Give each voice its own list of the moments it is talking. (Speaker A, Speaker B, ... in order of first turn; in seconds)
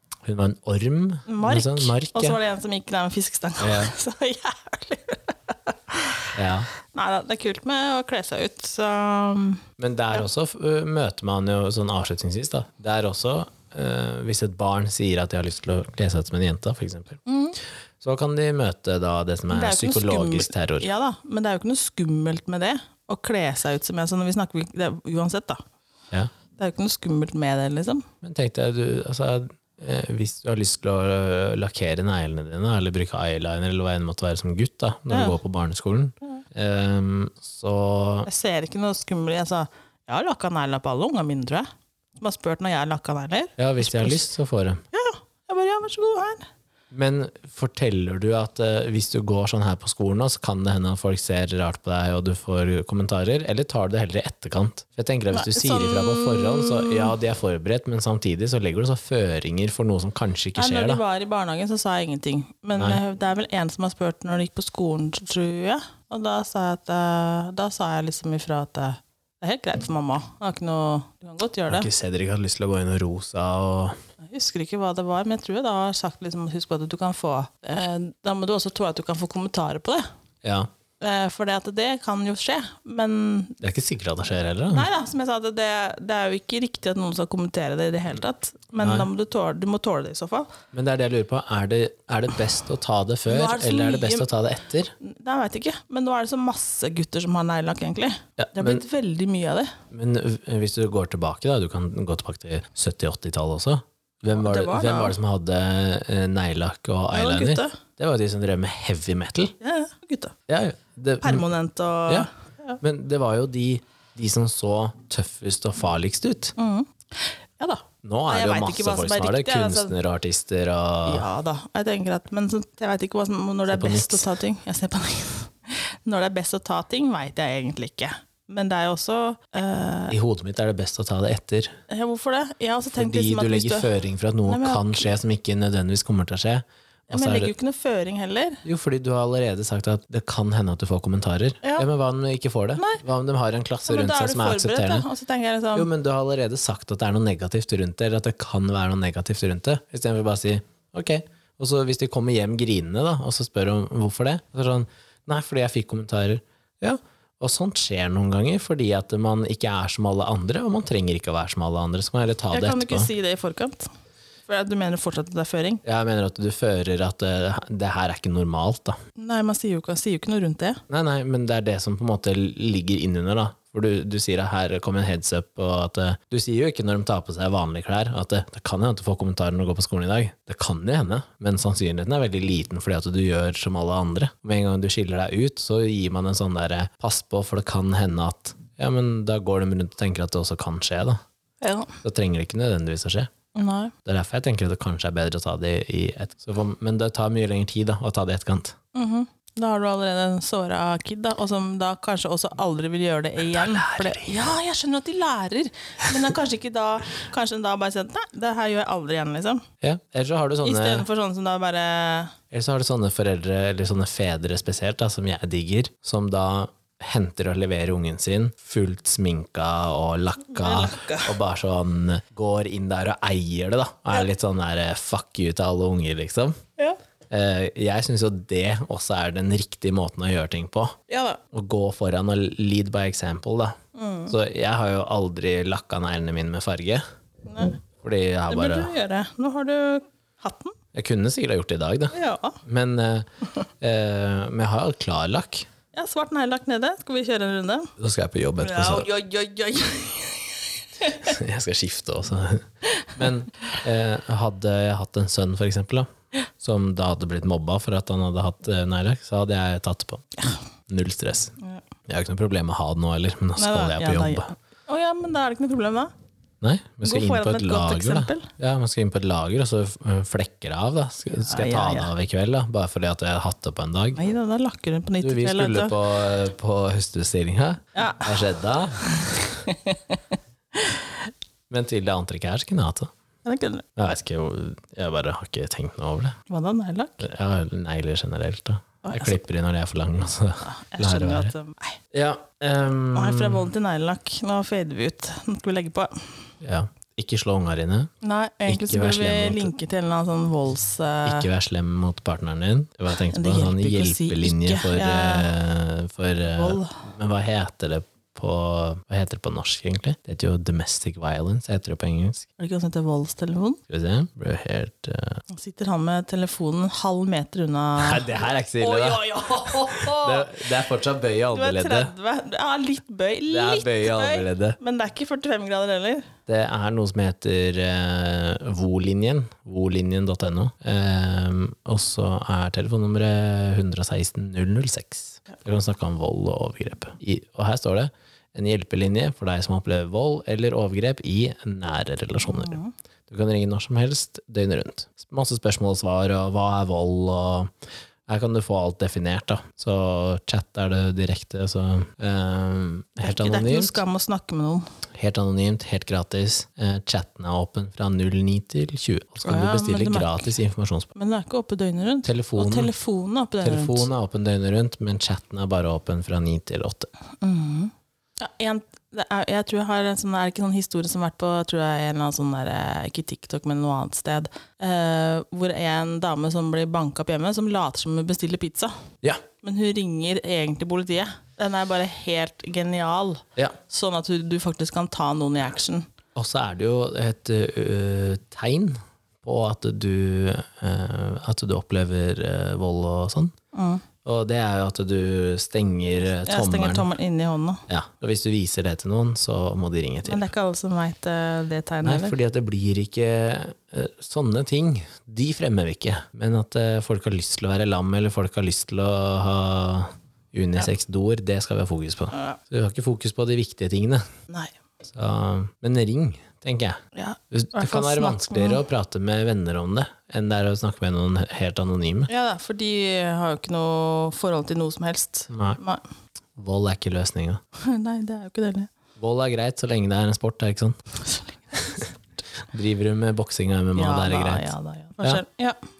Speaker A: 0.2-2.4, 3.6-3.9, 6.3-6.7, 9.8-17.2, 18.0-20.9, 28.2-38.3, 43.6-44.8, 46.9-61.0, 71.7-74.0, 80.4-80.7, 83.6-84.9, 88.8-89.1, 90.7-94.9, 98.4-98.8, 99.9-109.5, 110.5-111.5, 112.8-116.5, 118.0-121.3, 123.7-124.3, 130.1-131.7, 132.9-137.5, 138.7-145.1, 145.7-163.1, 165.8-169.0, 170.9-191.2, 192.0-193.3, 194.1-198.8, 203.5-204.5, 209.8-211.1, 212.5-226.6, 227.3-231.0, 231.5-233.8, 234.3-237.0, 238.0-238.9, 240.9-243.3, 243.8-245.7, 248.0-249.1, 251.2-256.1, 256.6-260.4, 260.9-261.6, 262.1-264.5, 266.6-274.2, 275.2-279.6, 281.7-283.1, 284.0-286.4, 287.2-291.5, 292.1-293.7, 296.6-298.1, 298.7-299.7, 301.2-312.5, 313.9-315.4, 318.0-322.1, 323.5-324.8, 326.5-342.8, 343.3-347.7, 348.3-354.0, 355.2-361.1, 362.2-362.9, 363.6-367.1, 386.4-393.5, 394.2-397.1, 397.9-400.5, 402.0-414.3, 415.1-417.0, 417.5-422.3, 425.5-425.8, 426.6-427.6, 429.2-431.0, 432.7-435.4
Speaker B: 1.3-6.4, 6.9-9.6, 17.3-17.6, 19.5-25.6, 26.6-28.1, 35.1-35.4, 38.3-44.2, 44.9-46.5, 55.3-57.1, 60.6-71.9, 74.2-80.1, 81.0-83.6, 84.7-90.5, 93.3-94.3, 95.0-99.8, 104.3-105.2, 107.1-107.8, 109.6-110.4, 111.2-112.8, 116.6-120.0, 121.1-130.2, 131.9-133.9, 134.5-135.2, 137.1-138.6, 142.8-143.0, 143.9-145.9, 162.5-163.9, 164.5-165.8, 169.2-170.8, 191.6-192.0, 193.6-193.9, 198.9-209.6, 210.6-212.4, 220.5-221.3, 231.1-231.4, 233.9-234.4, 237.5-237.8, 238.5-240.8, 242.1-242.6, 245.9-247.9, 248.6-251.4, 263.6-266.1, 267.0-268.5, 271.4-272.1, 274.1-276.0, 277.9-278.4, 279.0-280.2, 280.7-281.3, 283.4-283.9, 286.5-287.3, 289.0-289.4, 290.6-292.0, 293.1-296.4, 298.2-301.5, 303.2-305.6, 306.5-307.0, 312.6-313.8, 315.5-320.7, 321.5-326.3, 342.4-342.9, 353.2-354.9, 359.4-360.5, 361.1-364.1, 367.4-378.9, 379.6-386.1, 393.7-394.0, 396.5-397.8, 400.2-402.4, 412.3-412.6, 414.5-414.7, 417.1-418.8, 422.3-426.0, 427.8-428.9, 431.2-432.0, 433.9-435.8